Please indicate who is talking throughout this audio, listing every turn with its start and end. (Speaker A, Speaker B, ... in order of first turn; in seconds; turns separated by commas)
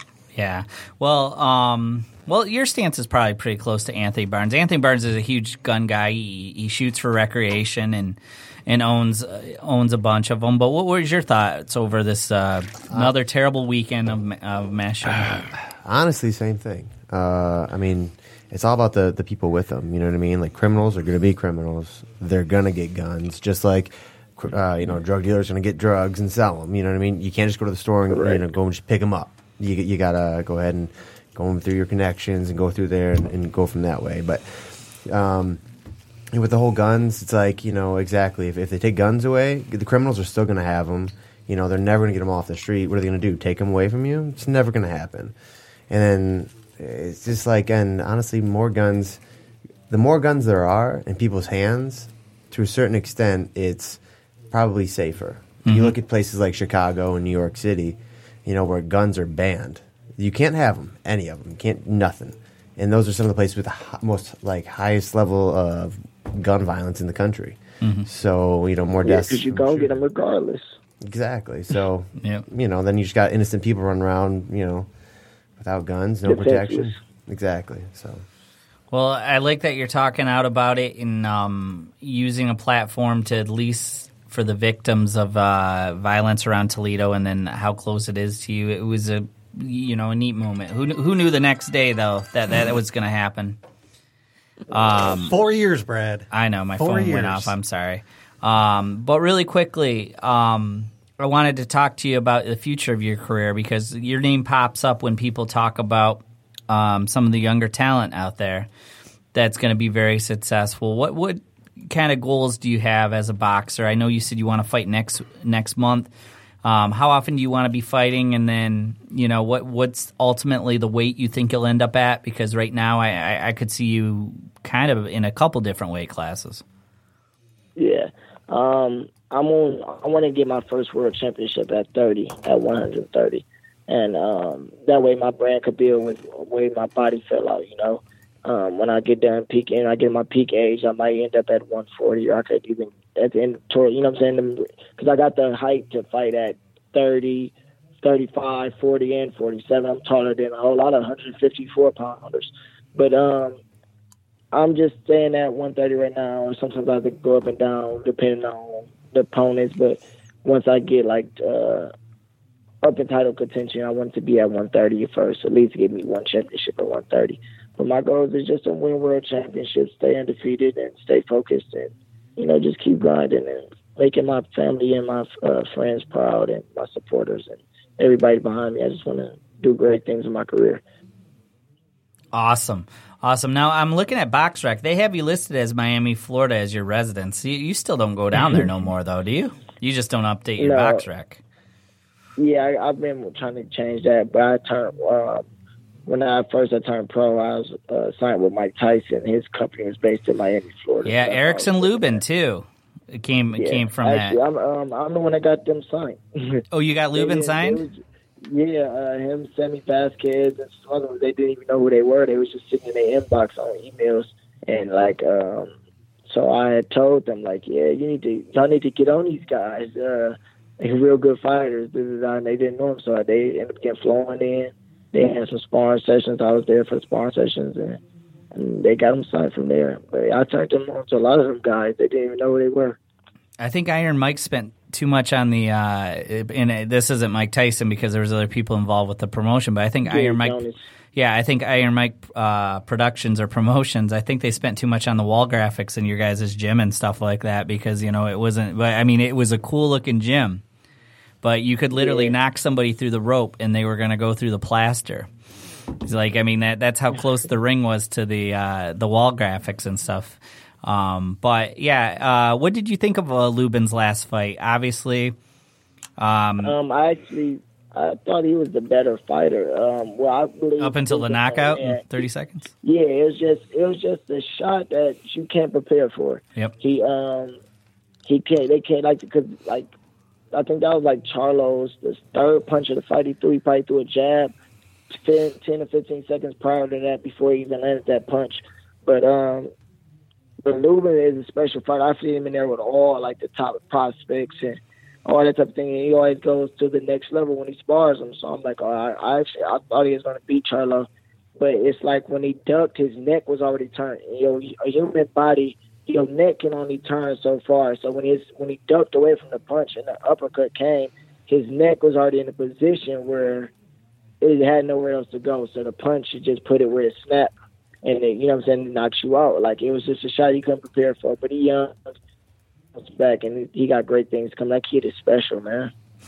Speaker A: 0.3-15.5, Speaker B: 15.8-35.6, Speaker C: 28.1-28.4, Speaker B: 36.3-45.3, Speaker B: 45.9-49.2, Speaker B: 49.9-54.0, Speaker B: 54.5-70.0, Speaker A: 55.6-56.0, Speaker A: 67.8-68.1, Speaker C: 69.0-70.7, Speaker B: 71.0-74.9, Speaker A: 72.2-72.5, Speaker B: 75.6-78.2, Speaker C: 76.2-77.0, Speaker A: 78.9-93.6, Speaker A: 94.7-95.4, Speaker D: 95.0-97.5, Speaker A: 96.3-108.7, Speaker A: 109.3-116.1, Speaker A: 116.6-126.6, Speaker C: 127.8-153.6, Speaker C: 154.5-161.9, Speaker C: 162.8-180.8, Speaker A: 182.3-191.4, Speaker C: 190.6-191.1, Speaker C: 192.4-195.4, Speaker C: 196.1-202.2, Speaker A: 201.0-204.4, Speaker C: 203.5-206.6, Speaker A: 206.7-207.8, Speaker C: 207.2-215.7, Speaker C: 216.3-228.0, Speaker C: 228.5-233.0, Speaker A: 233.6-240.6, Speaker C: 240.1-240.8, Speaker A: 241.2-250.6, Speaker A: 251.4-255.3, Speaker C: 251.9-252.4, Speaker A: 256.0-265.4, Speaker A: 266.2-266.8, Speaker C: 266.6-272.2, Speaker A: 270.8-272.7, Speaker C: 272.8-277.6, Speaker C: 278.3-279.9, Speaker C: 280.5-284.5, Speaker C: 285.1-289.7, Speaker C: 290.6-301.1, Speaker C: 301.6-313.7, Speaker C: 314.4-317.5, Speaker C: 318.0-322.1, Speaker C: 323.0-325.9